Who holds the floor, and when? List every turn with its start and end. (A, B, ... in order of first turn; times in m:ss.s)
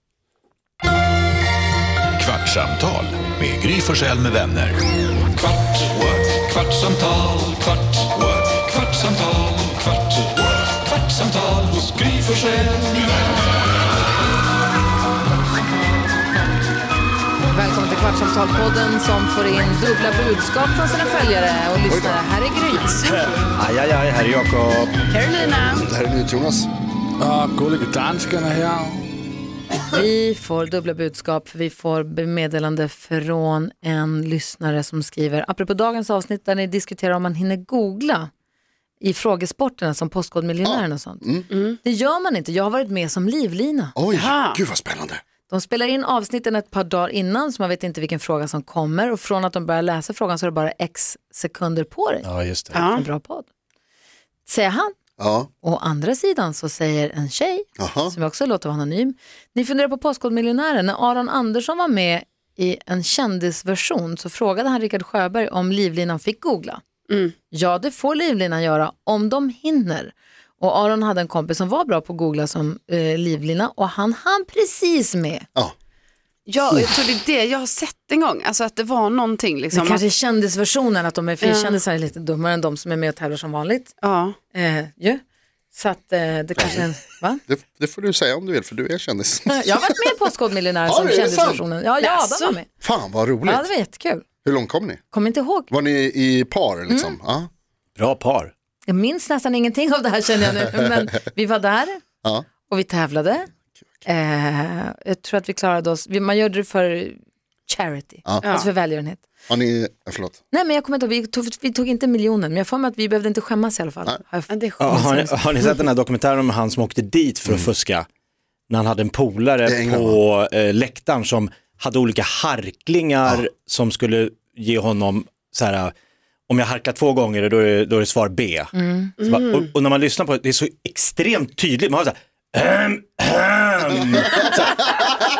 0:02.2-0:04.8 A
0:05.8-0:06.4 A
0:08.1-0:08.6 A
0:12.2-0:12.7 B
0:17.5-0:23.3 C
0:21.9-0:22.2 D
0:23.0-0:25.0 E
0:25.1-0:25.8 F
0:25.7-0:26.7 D
0:27.2-0:29.0 B
0:29.8-0:38.3 C
0:39.0-0:44.0 C
0:40.6-0:41.5 D
0:41.5-0:41.8 F
0:44.0-0:45.2 D
0:44.1-0:44.6 F
0:45.5-0:52.3 C
0:52.2-0:52.9 E
0:52.7-0:53.0 F
0:52.8-0:53.5 C
0:54.4-0:54.9 C
0:55.2-0:55.5 D
0:55.6-1:06.8 C
0:57.8-0:58.1 D
1:07.1-1:07.3 F
1:07.5-1:15.4 C
1:16.5-1:20.0 F
1:19.7-1:23.9 C
1:21.4-1:21.8 F
1:24.0-1:24.4 F
1:24.5-1:25.2 C
1:25.7-1:27.4 C
1:26.6-1:26.8 D
1:27.5-1:29.6 D
1:29.5-1:32.7 C
1:30.8-1:31.6 D
1:32.0-1:32.5 F
1:32.8-1:33.7 D
1:33.4-1:34.2 C
1:34.4-1:35.0 D
1:35.1-1:35.7 C
1:35.7-1:37.5 D
1:36.9-1:37.2 C
1:38.0-1:38.5 E
1:38.9-1:42.0 C
1:42.7-1:43.5 C
1:44.0-1:49.2 C
1:48.4-1:48.7 F
1:49.5-1:50.4 D
1:50.5-1:55.3 C
1:54.5-1:55.1 F
1:54.8-1:58.0 E
1:58.7-2:05.9 E
1:59.6-2:00.2 D
2:06.5-2:15.1 E
2:08.7-2:09.1 C
2:09.2-2:09.7 F